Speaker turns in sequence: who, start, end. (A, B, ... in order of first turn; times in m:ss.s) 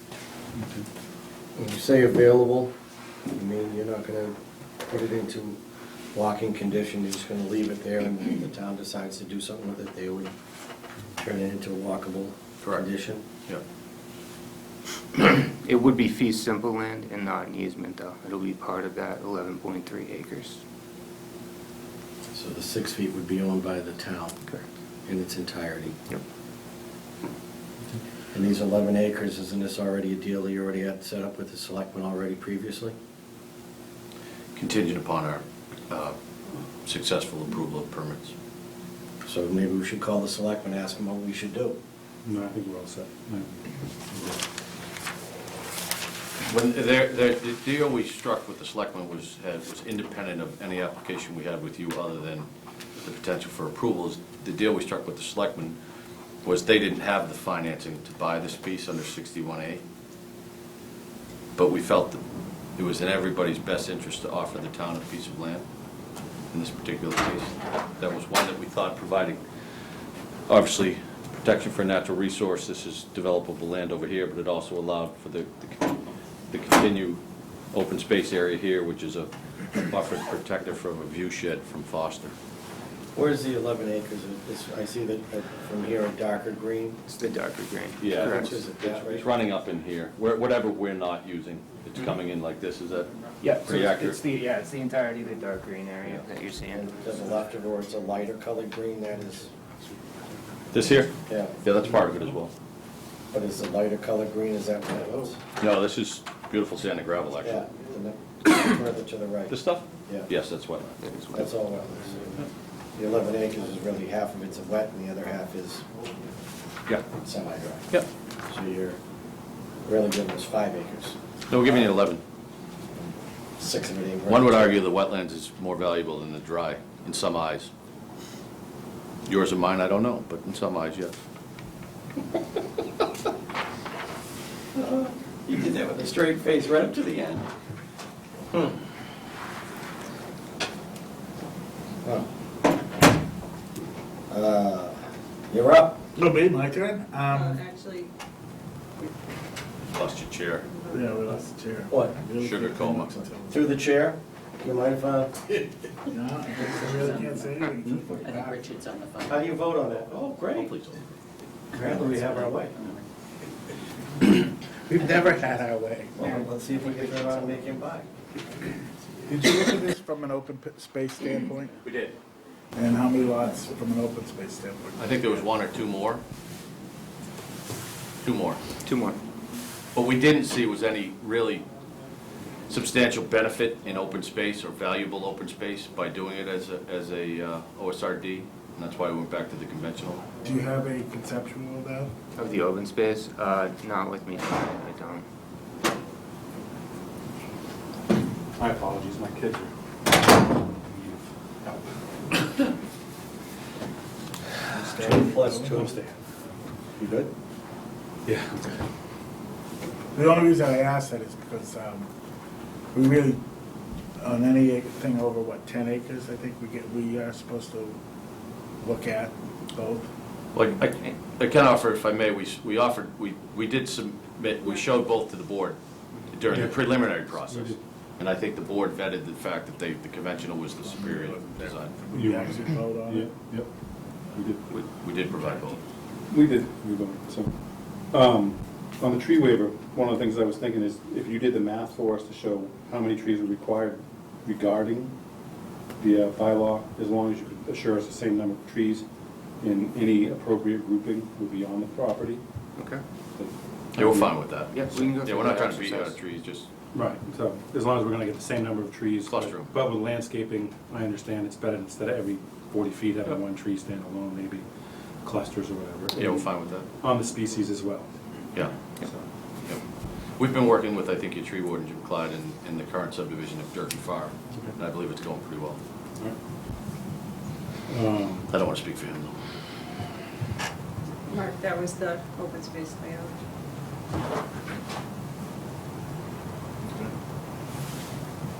0:00.6-0:00.8 A
0:01.6-0:02.7 B
0:03.3-0:04.4 B
0:04.9-0:05.6 B
0:06.1-0:10.3 B
0:11.2-0:13.2 B
0:12.6-0:12.9 C
0:15.2-0:20.6 D
0:22.3-0:24.4 B
0:25.1-0:26.0 B
0:28.3-0:32.9 B
0:34.5-0:36.2 C
0:36.8-0:38.3 C
0:39.2-0:41.8 B
0:42.2-0:43.6 A
0:46.4-0:55.8 C
0:56.4-0:59.8 C
1:01.6-1:02.2 C
1:02.7-1:05.6 C
1:06.5-1:09.4 C
1:10.5-1:17.2 C
1:17.7-1:22.3 C
1:23.1-1:27.0 B
1:27.1-1:28.6 D
1:28.0-1:33.1 C
1:28.3-1:29.3 B
1:33.4-1:37.0 D
1:33.6-1:34.2 C
1:36.7-1:39.5 B
1:40.7-1:42.5 C
1:41.2-1:41.6 B
1:43.3-1:45.4 B
1:45.6-1:47.7 C
1:47.4-1:50.3 B
1:49.5-1:51.0 C
1:51.0-1:51.5 D
1:51.3-1:52.4 B
1:52.9-1:55.8 B
1:57.2-1:57.8 B
1:58.5-1:59.0 B
1:59.8-2:01.9 B
2:01.5-2:02.2 C
2:03.6-2:04.8 B
2:04.2-2:07.7 C
2:09.2-2:11.2 C
2:14.8-2:17.4 B
2:18.5-2:18.8 B
2:22.0-2:22.3 B
2:24.3-2:26.0 B
2:26.1-2:27.6 E
2:27.3-2:28.1 F
2:29.9-2:30.7 C
2:30.7-2:31.4 F
2:30.9-2:33.8 E
2:31.9-2:32.2 B
2:32.4-2:33.2 C
2:33.5-2:35.7 B
2:36.1-2:38.6 E
2:36.6-2:37.6 G
2:38.2-2:39.3 G
2:39.2-2:40.7 B
2:40.5-2:41.0 C
2:41.7-2:42.8 B
2:41.8-2:42.6 G
2:44.2-2:46.2 E
2:46.2-2:48.1 B
2:49.2-2:51.8 E
2:51.8-2:52.2 C
2:52.7-2:55.5 E
2:55.0-2:56.2 C
2:58.2-2:58.6 C
2:58.8-2:59.2 D
2:59.9-3:01.6 C
3:02.7-3:10.3 C
3:10.4-3:12.1 E
3:12.3-3:15.2 D
3:18.6-3:19.7 A
3:20.7-3:21.8 A
3:24.7-3:25.8 E
3:25.0-3:25.6 B
3:25.6-3:26.2 A
3:27.0-3:27.3 B
3:28.2-3:28.6 A
3:30.1-3:32.1 E
3:32.9-3:33.4 E
3:34.2-3:38.0 E
3:38.8-3:40.1 E
3:40.5-3:45.8 C
3:46.3-3:52.0 C
3:46.5-3:46.8 A
3:47.3-3:47.8 A
3:50.8-3:53.4 E
3:52.1-3:53.7 A
3:54.3-3:54.6 A
3:54.7-3:55.8 C
3:56.3-3:57.5 A
3:58.1-4:05.1 A
4:06.0-4:09.0 A
4:09.6-4:12.4 A
4:12.8-4:13.0 D
4:13.4-4:14.3 A
4:14.0-4:16.7 C
4:14.7-4:16.2 D
4:16.9-4:24.6 A
4:19.3-4:19.7 C
4:25.2-4:26.5 A
4:26.2-4:26.9 C
4:27.0-4:28.1 A
4:30.4-4:35.8 C
4:37.9-4:38.5 A
4:38.5-4:39.3 C
4:41.3-4:43.4 F